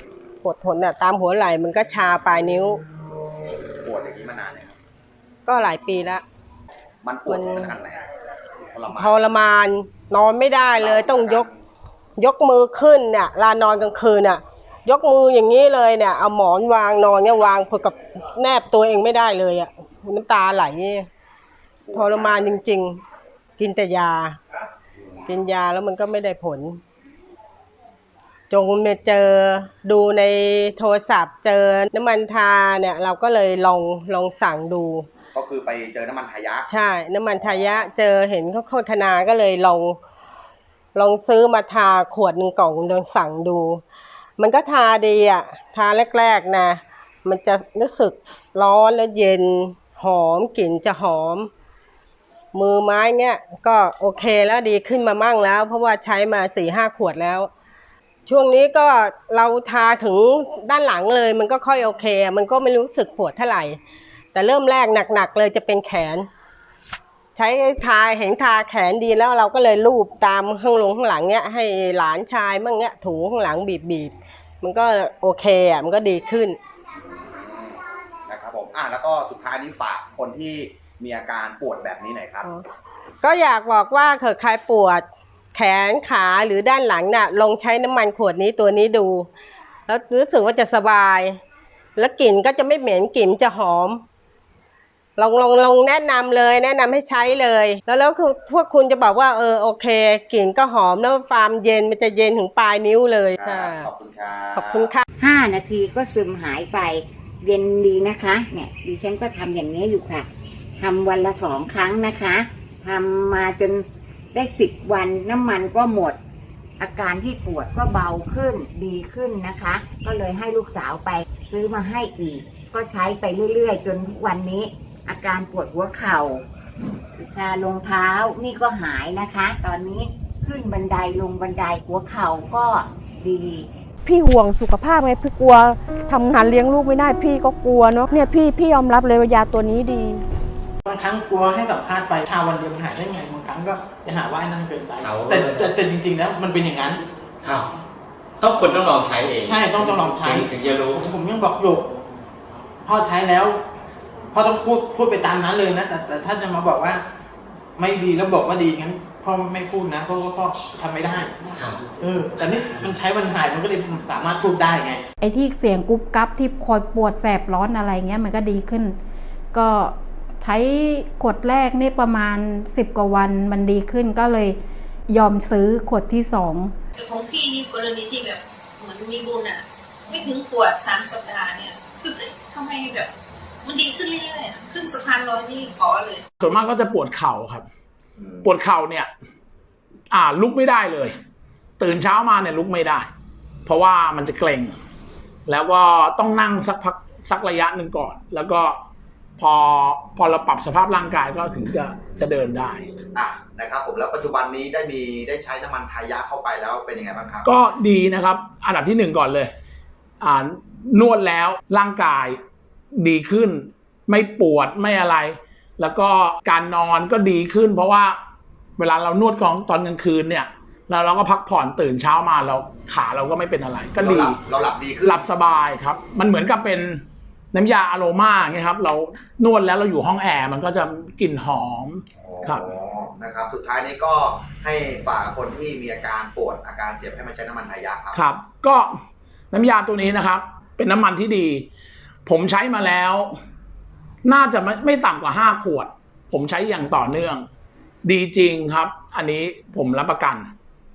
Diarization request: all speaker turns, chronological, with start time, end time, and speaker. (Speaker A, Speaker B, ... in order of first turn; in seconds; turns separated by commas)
Speaker A: 0.4-2.8, Speaker B: 3.8-4.7, Speaker A: 5.5-6.2, Speaker B: 7.0-8.0, Speaker A: 7.3-7.7, Speaker B: 8.7-9.2, Speaker A: 8.9-11.5, Speaker B: 10.7-11.5, Speaker A: 12.2-21.1, Speaker B: 21.8-22.6, Speaker A: 21.9-23.0, Speaker A: 23.6-24.4, Speaker A: 25.2-26.8, Speaker A: 28.5-35.1, Speaker B: 35.3-36.7, Speaker A: 36.7-40.0, Speaker A: 40.9-43.8, Speaker A: 44.4-51.5, Speaker A: 52.5-57.5, Speaker A: 58.2-63.8, Speaker A: 64.3-66.3, Speaker A: 67.3-76.6, Speaker B: 77.1-82.5, Speaker A: 83.2-89.3, Speaker A: 89.9-91.4, Speaker A: 92.0-94.0, Speaker A: 95.2-103.9, Speaker B: 103.3-104.9, Speaker A: 104.5-105.0, Speaker C: 105.2-116.2, Speaker C: 116.8-126.4, Speaker C: 127.2-133.7, Speaker D: 134.0-140.2, Speaker E: 140.8-147.0, Speaker F: 145.0-145.7, Speaker F: 147.4-147.7, Speaker F: 148.4-151.0, Speaker E: 149.4-151.9, Speaker E: 152.8-153.6, Speaker E: 154.3-157.0, Speaker E: 157.8-165.0, Speaker G: 165.2-169.0, Speaker G: 169.5-174.6, Speaker G: 175.1-176.7, Speaker H: 177.0-183.1, Speaker H: 183.6-186.2, Speaker I: 186.4-187.6, Speaker I: 188.4-189.1, Speaker I: 190.1-191.1, Speaker I: 191.8-193.1, Speaker I: 193.7-194.7, Speaker I: 195.4-198.8, Speaker I: 199.4-202.9, Speaker B: 203.1-207.5, Speaker I: 207.4-209.5, Speaker I: 210.2-212.4, Speaker I: 212.9-218.2, Speaker I: 218.8-224.4, Speaker B: 223.9-225.2, Speaker I: 225.0-232.7, Speaker B: 232.2-238.2, Speaker I: 238.1-238.9, Speaker I: 239.5-241.7, Speaker I: 242.2-243.3, Speaker I: 244.2-247.4, Speaker I: 248.0-250.5